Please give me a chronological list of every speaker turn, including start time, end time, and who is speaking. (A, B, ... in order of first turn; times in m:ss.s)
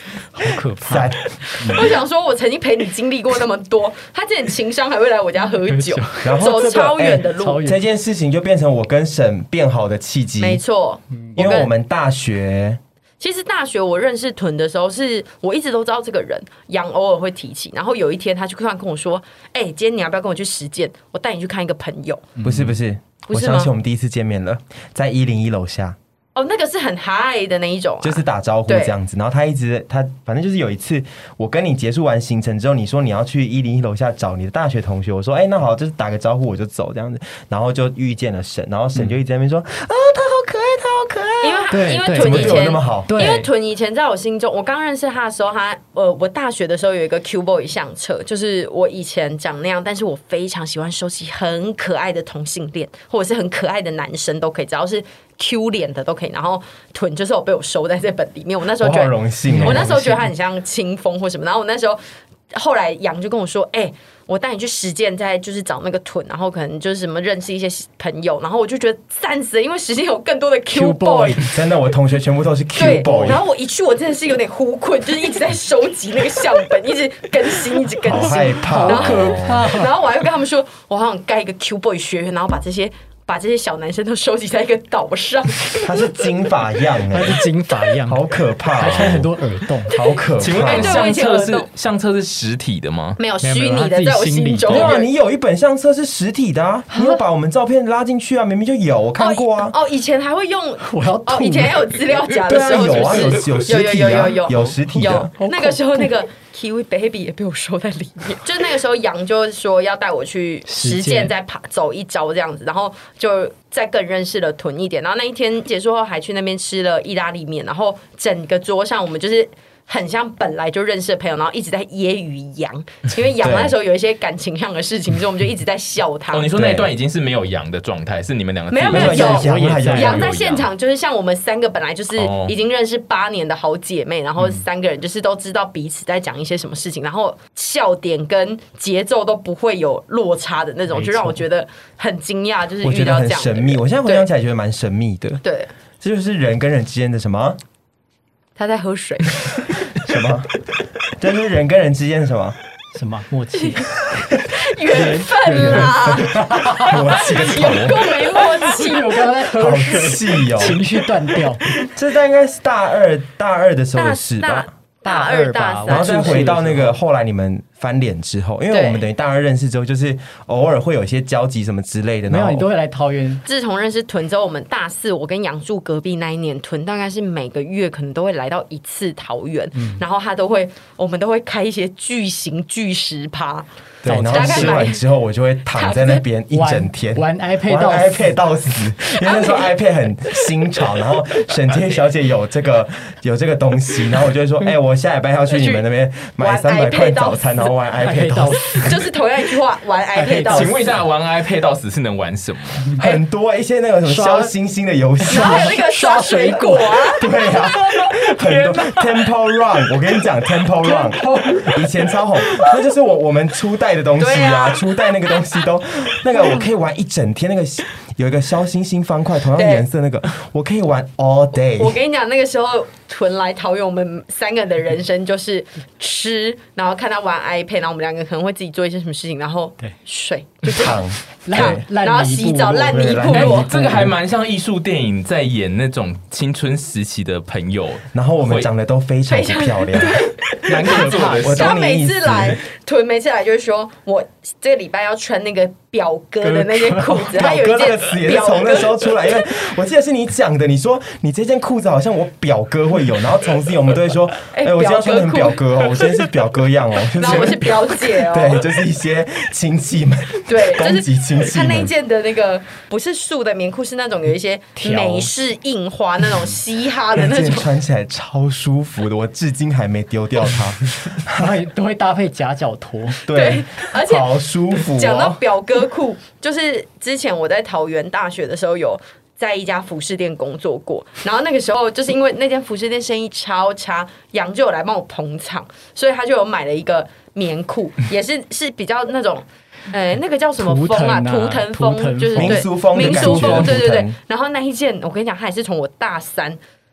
0:00.3-0:02.0 A
0:00.8-0:01.2 B
0:01.6-0:07.6 C
0:05.6-0:06.4 A
0:06.2-0:10.6 B
0:07.3-0:07.8 A
0:10.4-0:11.7 C
0:11.4-0:12.8 B
0:13.2-0:22.3 C
0:22.4-0:22.7 A
0:22.4-0:26.0 B
0:23.3-0:23.7 C
0:26.3-0:28.9 C
0:28.0-0:43.3 B
0:41.4-1:02.0 C
0:41.7-0:43.5 A
0:58.8-1:00.0 B
0:59.5-1:00.3 A
1:02.5-1:11.5 C
1:10.7-1:11.6 A
1:11.5-1:13.4 B
1:12.8-1:26.1 C
1:12.8-1:13.4 A
1:18.0-1:19.7 B
1:18.2-1:19.9 A
1:25.8-1:27.4 B
1:27.1-1:28.2 A
1:28.0-1:29.3 B
1:28.7-1:30.0 A
1:28.8-1:29.2 D
1:29.9-1:31.1 B
1:30.4-1:33.2 D
1:30.6-1:31.7 C
1:33.2-1:35.1 C
1:33.4-1:34.9 A
1:34.7-1:39.7 B
1:36.9-1:37.2 C
1:39.2-2:06.5 C
1:40.8-1:42.3 A
1:42.5-1:45.3 B
1:45.4-1:46.1 A
1:50.7-1:51.3 A
2:03.4-2:03.7 B
2:06.3-2:10.7 D
2:06.5-2:06.9 B
2:08.7-2:24.2 C
2:08.9-2:10.3 B
2:08.9-2:10.3 A
2:12.2-2:12.5 D
2:21.0-2:21.3 A
2:22.8-2:25.4 B
2:25.4-2:25.7 C
2:26.0-2:27.6 B
2:28.6-2:29.4 C
2:30.0-2:32.6 B
2:32.9-2:34.2 A
2:33.5-2:33.8 C
2:34.5-2:39.3 C
2:34.9-2:37.2 A
2:35.4-2:38.1 B
2:38.4-2:41.8 A
2:39.5-2:40.8 B
2:41.8-2:44.7 B
2:43.9-2:46.5 C
2:45.0-2:47.0 A
2:45.9-2:52.7 B
2:48.7-2:49.0 C
2:52.3-2:53.4 A
2:53.4-3:05.0 C
2:59.8-3:00.0 A
3:04.0-3:18.8 B
3:04.0-3:04.8 A
3:05.8-3:06.2 C
3:06.5-3:08.3 A
3:09.1-3:09.8 C
3:15.5-3:15.8 C
3:16.4-3:17.5 C
3:18.0-3:19.0 A
3:18.7-3:20.9 C
3:20.1-3:20.9 A
3:20.5-3:22.9 D
3:23.0-3:25.7 B
3:24.0-3:24.5 A
3:25.2-3:29.1 A
3:25.3-3:27.3 C
3:27.2-3:42.0 B
3:30.8-3:31.9 A
3:34.2-3:35.4 C
3:39.6-3:39.8 C
3:41.8-3:51.0 C
3:50.7-3:54.1 B
3:51.4-3:54.0 A
3:51.5-3:53.7 C
3:53.3-3:58.7 D
3:58.1-4:00.3 B
3:59.3-4:09.4 C
4:00.6-4:01.6 A
4:00.6-4:01.7 D
4:01.4-4:02.6 B
4:06.4-4:07.2 A
4:07.3-4:21.9 B
4:14.5-4:15.6 C
4:17.2-4:18.6 C
4:20.4-4:27.7 C
4:24.8-4:25.3 A
4:27.1-4:31.5 B
4:31.2-4:33.2 A
4:33.2-4:35.4 B
4:33.3-4:34.3 C
4:34.9-4:56.6 C
4:50.6-4:53.8 A
4:52.3-4:54.2 B